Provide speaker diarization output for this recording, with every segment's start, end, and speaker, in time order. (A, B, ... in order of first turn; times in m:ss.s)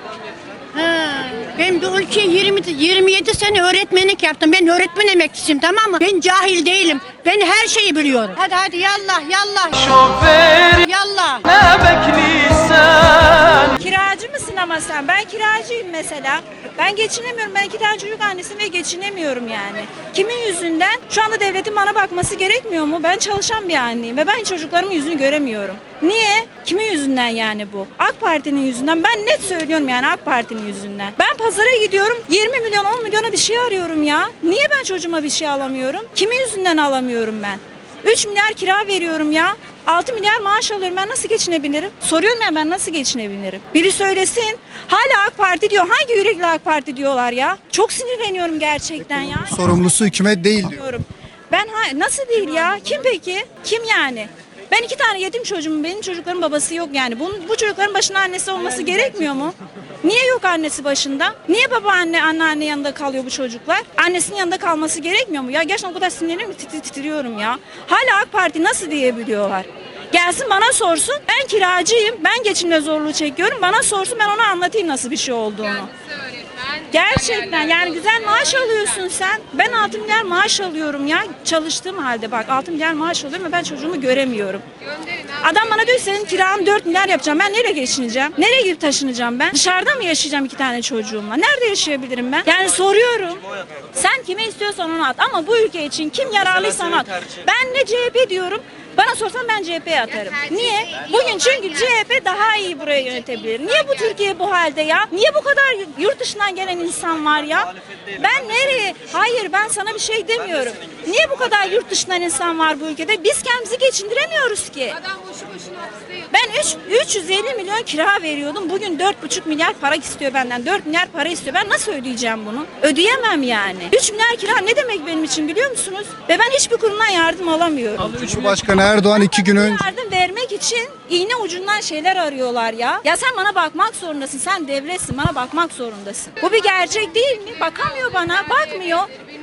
0:00.7-0:13.6 A
0:13.8-0:49.6 B
0:49.0-0:50.8 C
0:50.6-1:15.9 B
1:16.9-1:24.6 B
1:25.4-1:55.0 B
1:56.3-2:08.4 B
2:08.0-2:09.9 C
2:09.5-2:19.1 B